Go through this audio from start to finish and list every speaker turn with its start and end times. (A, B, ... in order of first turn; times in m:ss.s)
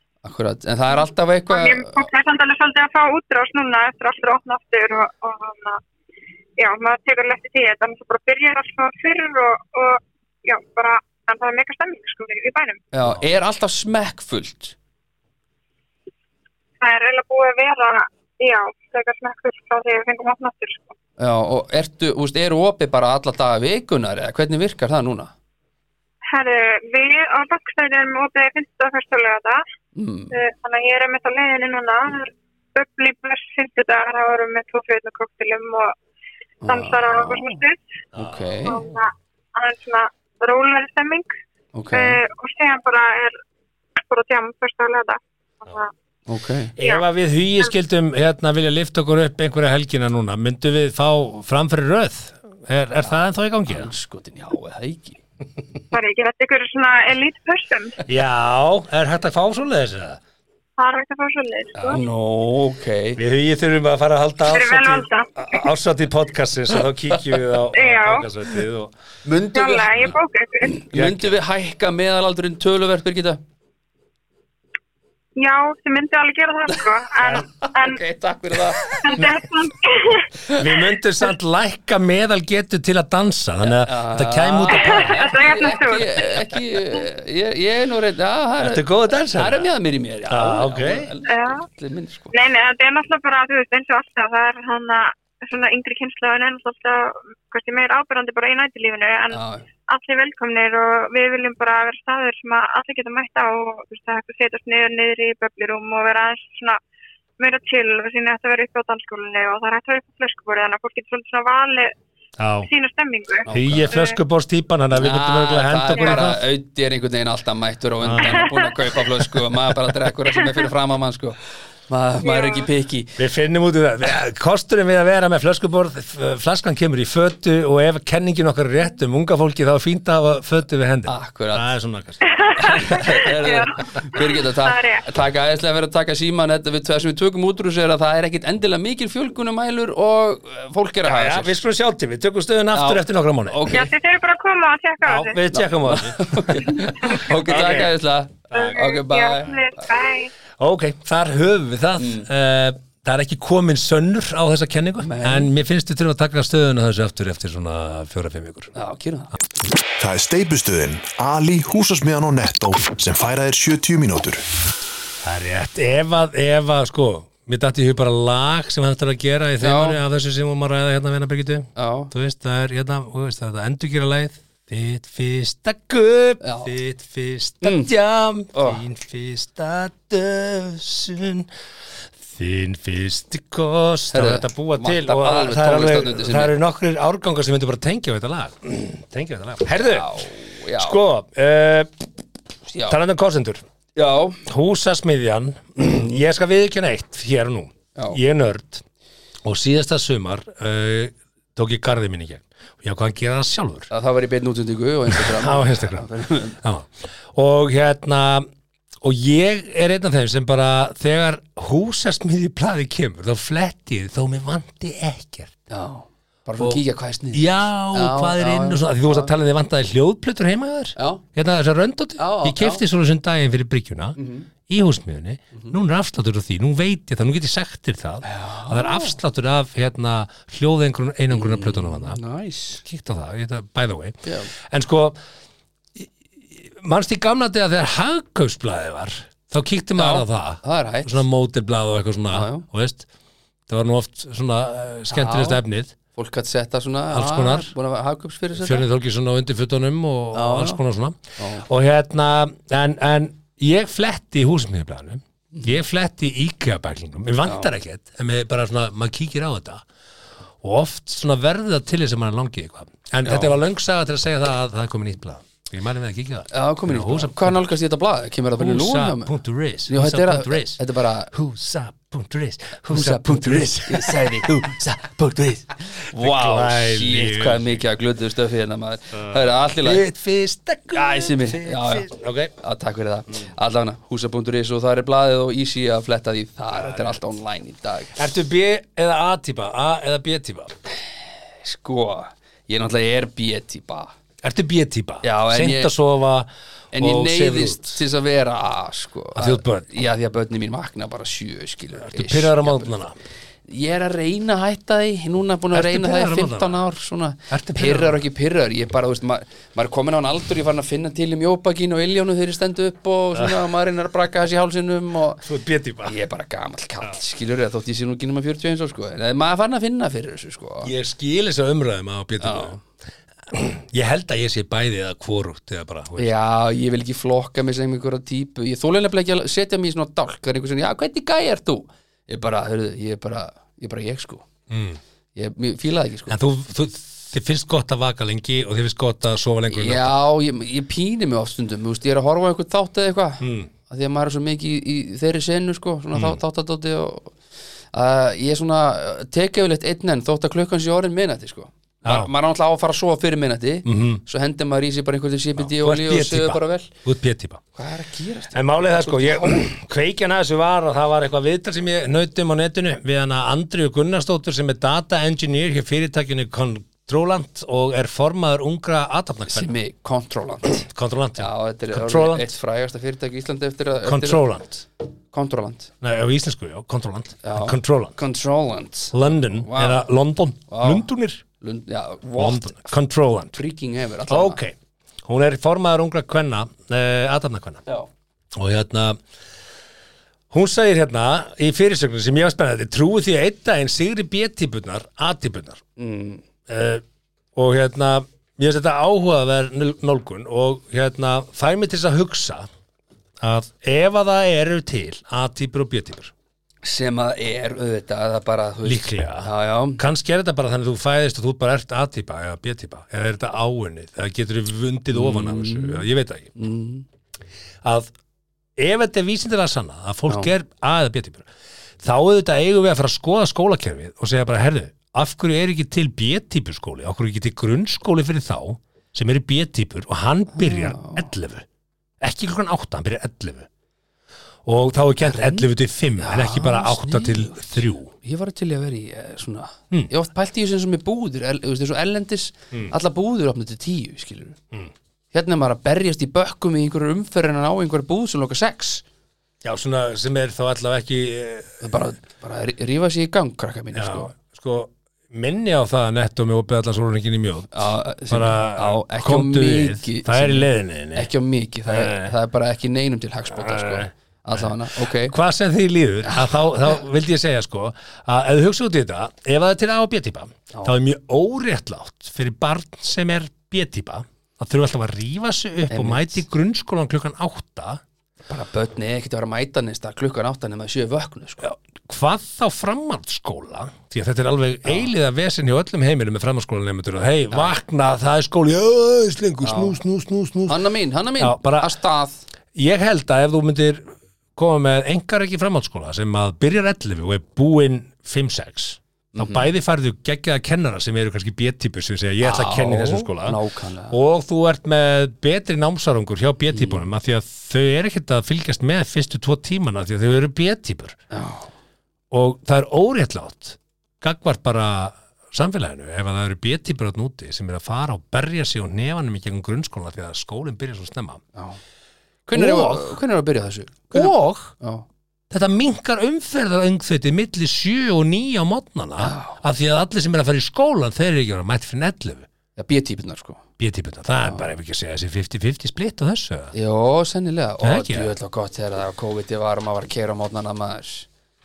0:00.2-0:02.1 A
0:01.5-0:05.8 B
0:06.6-0:12.8 B
0:12.9-0:14.7 A
0:16.8-0:20.9 B
0:21.2-0:25.3 A
0:26.3-0:29.6 B
0:29.9-0:30.3 A
0:30.3-0:35.9 B
0:36.6-0:37.6 A
0:36.7-0:37.8 B
0:38.1-0:38.8 C
0:38.2-0:38.8 A
0:38.6-0:41.3 B
0:41.7-0:42.2 A
0:41.9-0:43.4 B
0:44.1-0:45.9 B
0:46.3-0:46.7 A
0:46.8-0:53.9 C
0:53.7-0:55.2 A
0:55.9-0:58.0 B
0:58.0-1:00.2 C
1:00.8-1:02.0 B
1:01.7-1:03.2 A
1:03.2-1:08.9 C
1:04.5-1:05.6 B
1:07.7-1:08.2 B
1:09.2-1:10.1 A
1:09.5-1:10.8 B
1:10.6-1:13.4 A
1:10.9-1:11.3 C
1:15.4-1:18.0 B
1:16.8-1:19.2 A
1:19.0-1:20.3 B
1:19.1-1:19.4 C
1:20.5-1:25.3 C
1:23.6-1:32.3 A
1:24.7-1:26.1 B
1:28.6-1:29.7 C
1:30.3-1:31.1 C
1:31.3-1:31.6 B
1:32.3-1:46.8 B
1:39.3-1:39.6 A
1:47.4-1:51.9 B
1:52.4-1:52.7 C
1:52.6-1:54.2 B
1:53.4-1:54.0 A
1:53.5-1:56.4 C
1:54.9-2:03.2 A
1:58.0-1:58.5 C
2:02.2-2:02.6 B
2:03.2-2:12.4 C
2:11.0-2:11.7 A
2:12.3-2:15.0 B
2:12.6-2:21.5 A
2:21.0-2:23.7 C
2:22.7-2:23.9 A
2:23.7-2:25.4 B
2:25.0-2:27.9 C
2:25.5-2:29.6 A
2:28.5-2:30.3 B
2:30.6-2:38.7 C
2:32.0-2:32.3 A
2:35.0-2:35.5 A
2:38.7-2:39.3 A
2:40.0-2:44.4 D
2:45.2-3:01.5 C
2:49.6-2:50.0 A
2:51.8-2:52.1 A
2:56.4-2:56.7 A
2:57.6-2:57.9 A
2:58.5-2:58.8 A
3:02.3-3:10.2 C
3:04.1-3:06.5 A
3:09.7-3:11.0 A
3:10.8-3:11.9 C
3:12.7-3:13.0 A
3:12.9-3:13.6 C
3:14.0-3:14.4 A
3:14.4-3:18.8 C
3:19.4-3:23.9 C
3:23.9-3:26.6 A
3:25.1-3:26.1 C
3:26.6-3:28.5 C
3:29.0-3:35.5 C
3:35.7-3:39.3 A
3:37.3-3:52.2 C
3:41.0-3:41.2 A
3:42.2-3:42.8 A
3:44.2-3:44.5 A
3:48.2-3:49.2 A
3:51.3-3:52.8 A
3:52.8-3:55.2 C
3:54.2-3:54.5 A
3:56.0-4:03.0 C
4:00.0-4:01.2 A
4:02.3-4:02.6 A
4:03.7-4:05.9 C
4:05.1-4:05.6 A
4:06.1-4:08.8 A
4:07.1-4:07.7 C
4:08.6-4:19.8 C
4:10.3-4:10.8 A
4:11.4-4:11.6 A
4:17.4-4:17.7 A
4:20.6-4:27.7 C
4:23.2-4:23.5 A
4:26.5-4:29.3 A
4:28.6-4:37.8 C
4:29.9-4:31.3 A
4:32.9-4:40.0 A
4:39.2-4:42.5 C
4:40.9-4:42.1 A
4:42.6-4:48.2 A
4:46.8-4:47.2 C
4:48.2-4:50.7 C
4:51.6-4:54.1 A
4:54.4-4:58.0 C
4:55.2-4:55.9 A
4:56.9-5:02.9 A
4:59.4-4:59.9 C
5:02.0-5:03.2 C
5:03.7-5:15.4 A
5:05.7-5:06.8 C
5:07.5-5:08.2 C
5:15.4-5:16.2 C
5:16.0-5:20.9 A
5:20.8-5:22.8 C
5:22.4-5:22.8 A
5:23.5-5:26.3 C
5:26.2-5:34.4 A
5:34.7-5:35.0 C
5:35.3-5:36.4 A
5:36.3-5:40.1 C
5:39.7-5:47.3 A
5:43.4-5:43.7 C
5:46.1-5:46.4 C
5:47.9-5:56.9 A
5:52.0-5:52.3 C
5:53.8-5:54.2 C
5:55.6-5:57.6 C
5:57.8-5:59.6 A
5:58.5-6:09.7 C
6:09.5-6:10.9 A
6:10.8-6:12.4 C
6:11.4-6:14.4 A
6:14.0-6:14.8 C
6:15.3-6:15.9 A
6:16.0-6:18.1 C
6:17.4-6:20.0 A
6:19.1-6:21.4 C
6:20.7-6:21.0 A
6:21.6-6:22.9 A
6:22.4-6:23.6 C
6:23.5-6:24.6 A
6:24.3-6:27.8 C
6:28.6-6:29.2 C
6:30.5-6:35.8 C
6:36.0-6:36.4 A
6:36.7-6:37.0 C
6:37.5-6:42.7 C
6:43.4-6:46.3 C
6:46.8-6:50.0 A
6:48.8-6:56.5 C
6:55.1-6:56.0 A
6:56.6-6:57.0 A
6:57.8-6:58.1 C
6:58.8-7:01.4 C
7:02.0-7:11.6 C
7:10.5-7:11.3 A
7:12.2-7:13.7 C
7:14.6-7:18.1 C
7:15.2-7:15.7 A
7:16.2-7:24.6 A
7:25.3-7:29.0 A
7:29.6-7:31.8 C
7:31.8-7:34.3 A
7:33.9-7:41.3 C
7:37.7-7:45.3 A
7:41.9-7:42.3 C
7:43.5-7:44.7 C
7:45.2-7:58.0 C
7:55.9-7:56.4 A
7:58.5-8:01.7 A
8:01.6-8:10.8 C
8:09.6-8:10.0 A
8:10.7-8:12.4 A
8:11.4-8:11.9 C
8:12.7-8:14.0 C
8:14.6-8:23.6 C
8:19.3-8:19.7 A
8:22.4-8:24.2 A
8:24.1-8:31.2 C
8:26.7-8:27.0 A
8:31.3-8:31.7 A
8:32.3-8:41.4 C
8:42.5-8:45.0 A
8:42.5-8:43.2 C
8:44.1-8:44.7 C
8:45.5-8:52.5 C
8:49.2-8:49.6 A
8:52.8-8:53.6 A
8:53.8-8:56.7 C
8:56.7-9:01.3 A
8:57.8-8:58.3 C